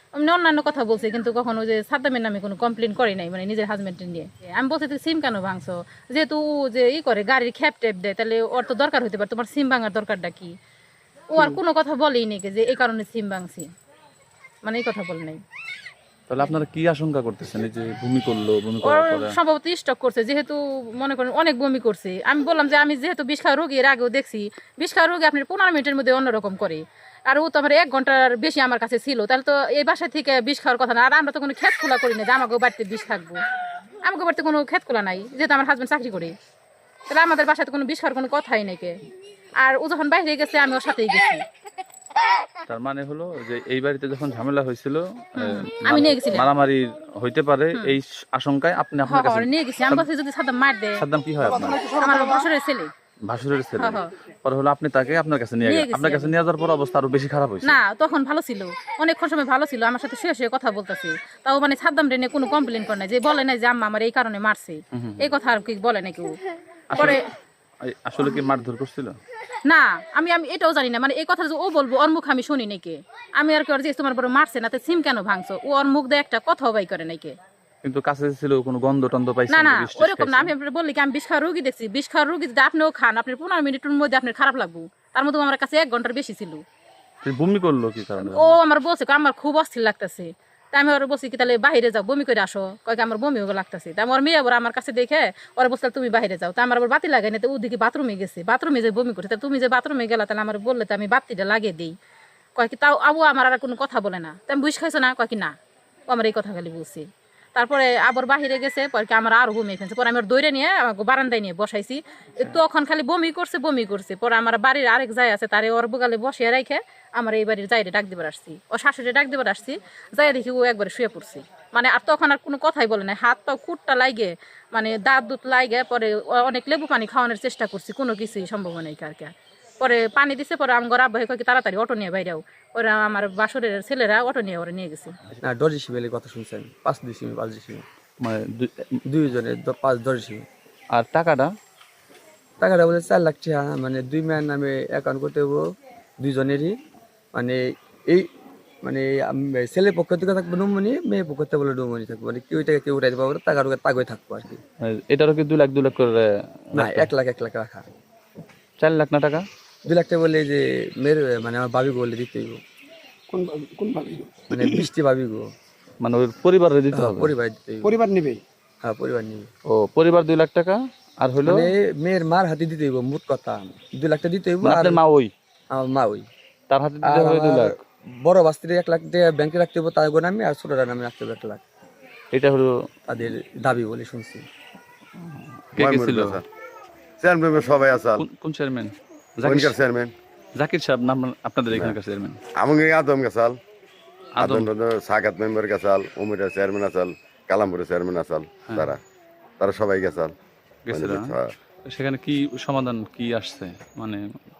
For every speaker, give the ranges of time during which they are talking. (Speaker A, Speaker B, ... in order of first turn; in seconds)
Speaker A: 0.1-10.5, 11.3-13.7, 14.6-15.4, 18.8-33.4, 34.0-36.3, 37.1-38.9, 39.6-41.4, 45.4-46.5, 49.0-51.0, 51.9-52.9, 53.8-54.1, 55.6-56.3, 57.6-66.3, 66.9-67.3, 69.7-77.3, 79.5-86.6, 88.2-102.0, 102.6-105.5, 106.1-135.2
Speaker B: 16.3-19.3, 42.7-50.1, 51.0-52.0, 53.3-57.8, 65.0-65.3, 66.9-67.2, 67.8-69.2, 77.8-80.5, 87.2-88.6, 138.2-138.8, 140.9-141.5, 154.8-157.1, 158.8-159.4, 166.0-167.3, 169.7-171.7, 174.6-175.3, 176.7-177.8, 182.3-182.7, 185.2-186.4, 188.2-189.8, 190.6-192.4, 194.4-194.7, 198.7-198.9, 200.9-201.3, 201.9-204.2
Speaker C: 135.3-137.9, 139.1-140.5, 142.6-145.6, 146.2-146.8, 147.3-148.3, 148.8-154.6, 156.7-157.9, 159.8-162.6, 164.5-165.5, 166.9-168.0, 168.8-169.5, 171.4-175.0, 175.7-176.3, 177.0-181.6, 183.1-184.5
Speaker D: 163.3-164.9, 167.8-168.4
Speaker E: 185.8-186.4, 187.2-188.2, 189.4-190.1, 191.7-192.0, 192.6-193.6, 194.4-199.0, 199.6-200.3, 200.9-201.5